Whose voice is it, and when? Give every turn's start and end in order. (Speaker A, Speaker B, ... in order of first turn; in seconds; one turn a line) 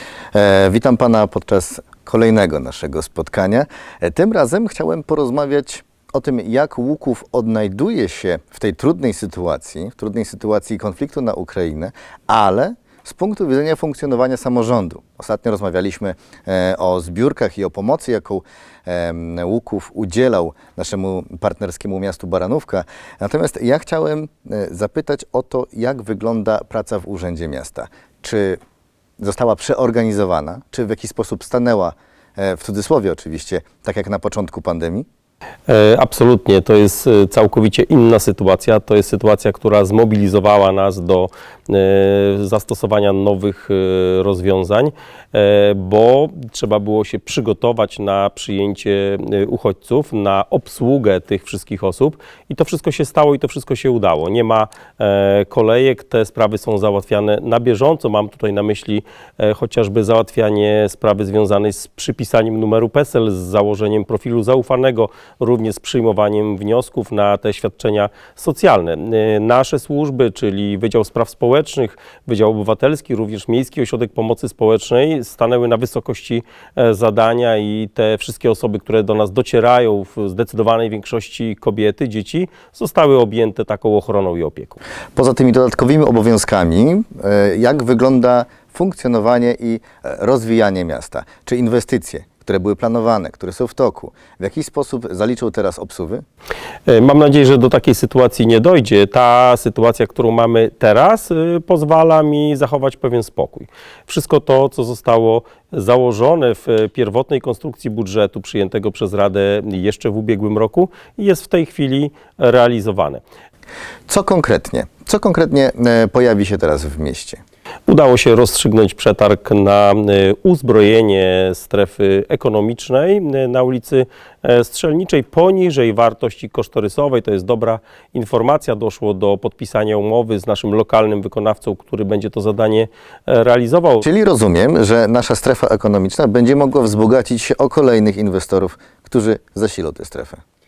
Speaker A: 0.3-28.6
Speaker A: 29.2-35.0
Speaker B: 35.7-84.8
Speaker A: 85.1-96.2
Speaker B: 96.9-113.2
Speaker A: 114.1-117.4
Speaker B: 117.9-134.0
Speaker A: 134.0-140.4